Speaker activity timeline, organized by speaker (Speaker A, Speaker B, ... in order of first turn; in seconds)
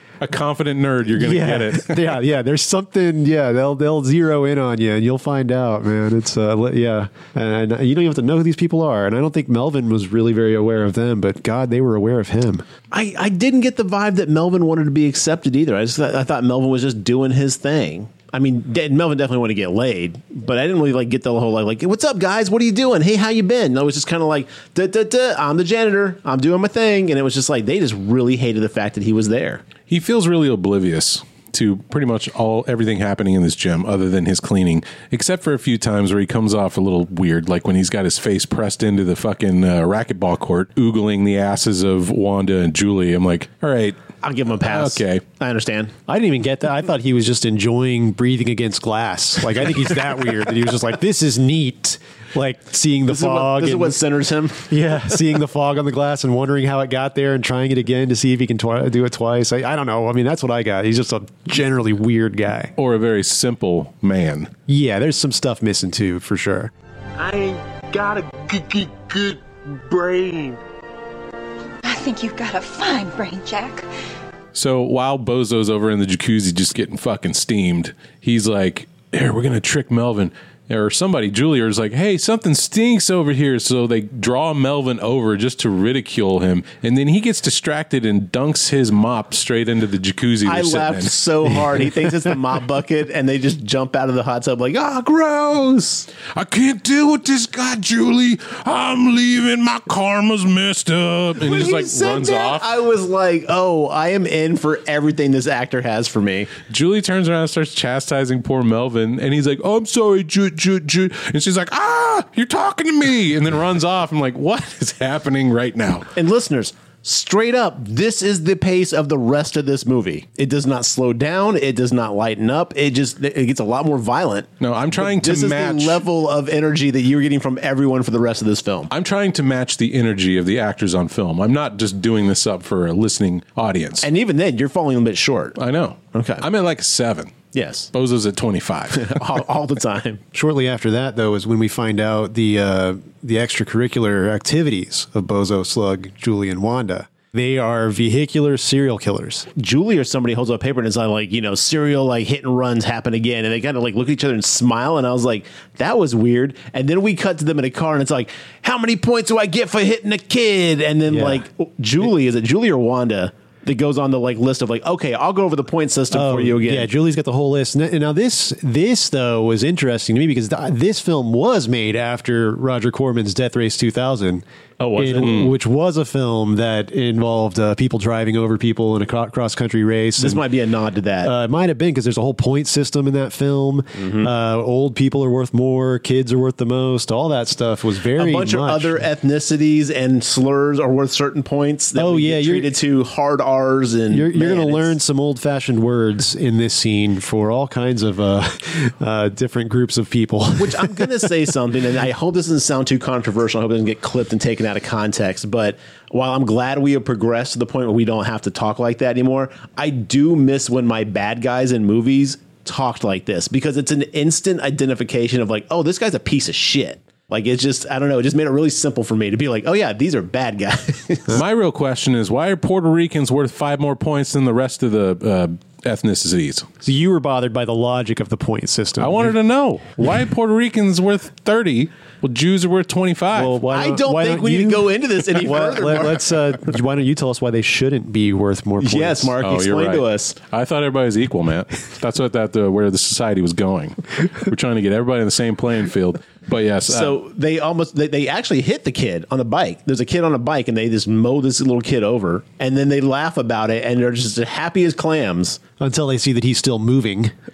Speaker A: 0.2-2.2, 29.9-44.0, 44.6-45.2, 62.8-64.5, 74.5-91.5, 96.3-102.7, 106.7-116.1, 124.6-126.0, 128.9-134.1, 135.6-137.3, 137.9-139.2, 175.2-175.5, 221.3-226.7, 229.0-233.6, 239.4-247.2
Speaker B: 1.1-12.7, 46.1-54.0, 54.7-62.7, 64.7-66.7, 140.3-149.5, 161.1-161.4, 166.1-174.4, 175.0-180.4, 181.2-189.1, 192.0-192.7, 194.1-201.3, 226.8-229.4, 233.3-239.3, 255.8-257.3
Speaker C: 12.9-29.6, 44.2-45.9, 53.1-54.7, 90.5-96.1, 101.4-106.5, 116.2-128.9, 134.0-135.6, 136.1-136.4, 137.5-137.9, 138.9-140.2, 149.6-166.9, 174.8-175.5, 180.2-181.3, 184.0-184.3, 188.2-195.0, 200.6-221.4, 233.7-236.3, 238.8-240.4, 246.9-255.6
Speaker D: 67.2-70.6
Speaker E: 71.8-73.9